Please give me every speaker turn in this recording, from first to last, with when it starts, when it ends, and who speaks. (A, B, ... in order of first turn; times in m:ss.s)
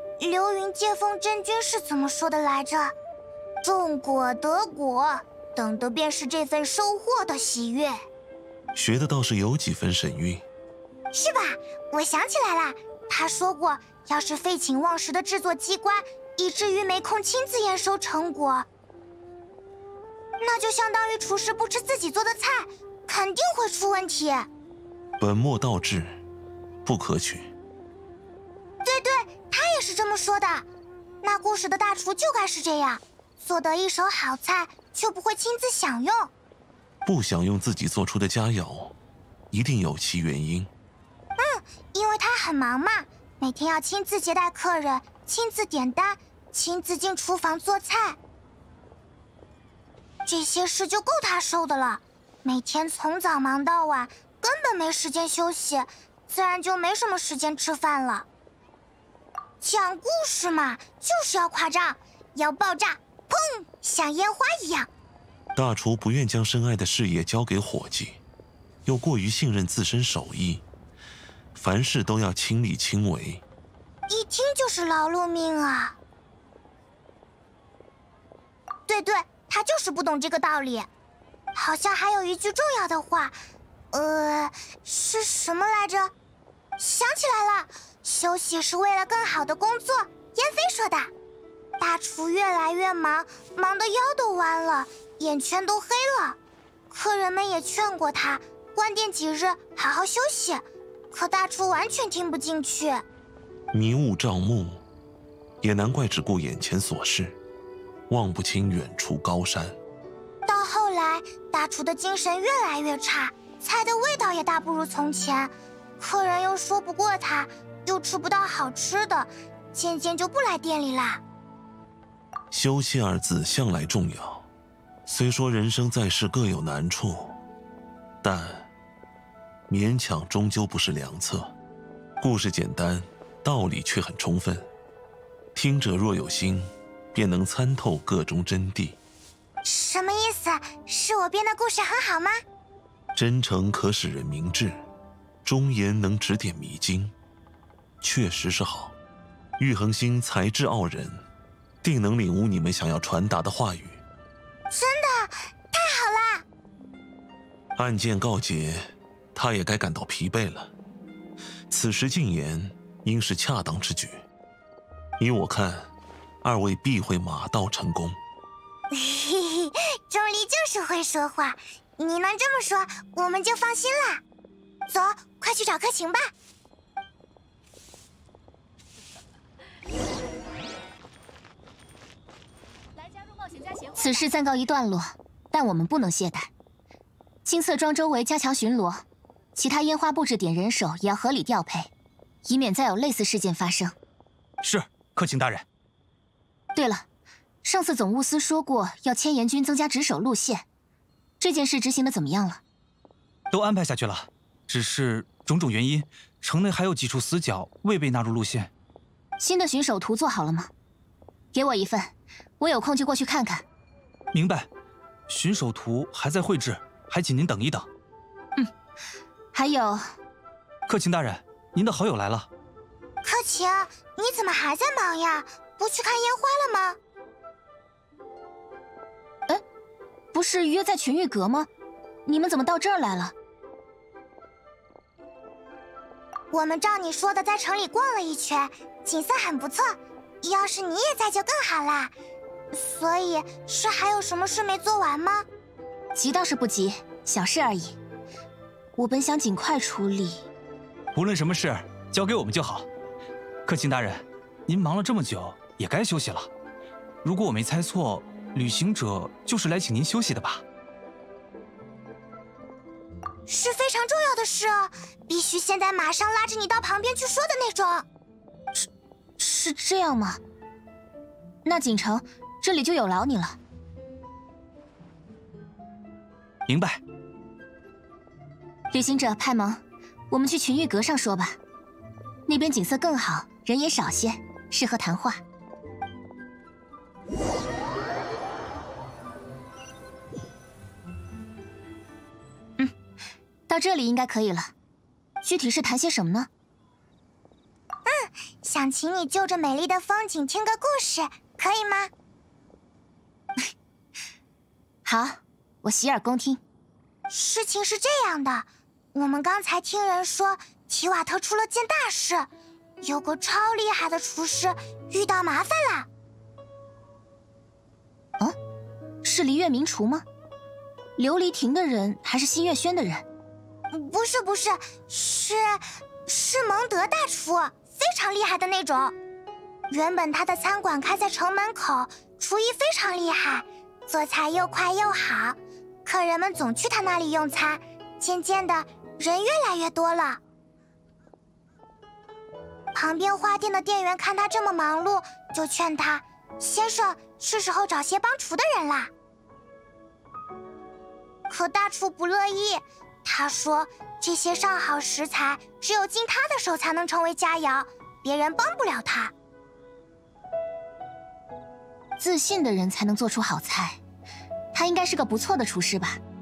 0:00.2-0:02.9 A
0:03.6-0:08.0 A
0:08.7-0:10.4 B
0:11.1-0:18.7 A
0:20.4-0:24.5 A
0:25.2-0:26.2 B
0:26.8-0:27.5 B
0:28.8-0:30.7 A
0:31.2-0:36.3 A
0:37.0-0:38.9 B
0:39.5-0:40.7 B
0:41.4-0:48.2 A
0:50.2-0:58.3 A
0:59.6-1:04.9 A
1:05.6-1:08.2 B
1:08.8-1:10.6 B
1:11.5-1:13.4 B
1:14.1-1:16.0 A
1:18.9-1:20.9 A
1:21.5-1:23.4 A
1:23.9-1:26.1 A
1:26.8-1:31.1 A
1:31.8-1:36.4 A
1:36.9-1:43.0 A
1:43.7-1:44.8 B
1:45.6-1:47.4 B
1:48.1-1:49.8 B
1:50.4-2:01.2 A
2:02.5-2:04.5 B
2:05.0-2:07.4 B
2:08.2-2:08.7 B
2:09.7-2:11.5 B
2:12.2-2:14.7 B
2:15.5-2:19.0 B
2:19.6-2:22.4 A
2:23.1-2:24.8 B
2:25.4-2:27.1 B
2:28.0-2:28.9 B
2:29.6-2:31.2 B
2:31.8-2:34.0 B
2:34.7-2:36.4 A
2:37.8-2:40.7 B
2:41.7-2:44.2 B
2:45.2-2:45.9 B
2:46.4-2:48.2 B
2:48.9-2:54.2 A
2:54.9-2:56.2 A
3:03.9-3:06.5 C
3:07.4-3:09.0 C
3:09.6-3:11.9 C
3:12.4-3:13.9 C
3:14.6-3:15.6 D
3:16.7-3:17.0 C
3:17.6-3:20.6 C
3:21.4-3:22.6 C
3:23.5-3:28.7 D
3:29.4-3:30.7 C
3:31.5-3:33.6 C
3:34.3-3:34.7 D
3:35.3-3:37.9 D
3:39.5-3:40.1 C
3:40.9-3:42.5 D
3:43.2-3:47.0 A
3:50.3-3:51.7 C
3:52.2-3:53.3 C
3:56.5-4:02.1 A
4:02.7-4:05.4 A
4:06.1-4:08.0 C
4:09.0-4:10.5 C
4:11.1-4:12.9 D
4:13.6-4:16.5 D
4:17.2-4:20.6 D
4:23.5-4:28.0 A
4:29.4-4:30.4 C
4:31.6-4:33.6 C
4:36.7-4:37.0 D
4:38.9-4:41.6 C
4:42.5-4:45.4 C
4:53.7-4:54.7 C
4:55.4-4:56.5 C
4:58.0-5:02.1 A
5:05.0-5:06.6 C
5:07.3-5:12.5 A
5:13.0-5:16.1 A
5:19.2-5:20.2 C
5:21.2-5:23.2 C
5:23.9-5:29.2 A
5:29.9-5:40.4 A
5:42.9-5:49.1 A
5:51.5-5:59.3 A
6:02.2-6:04.0 C
6:04.7-6:06.2 C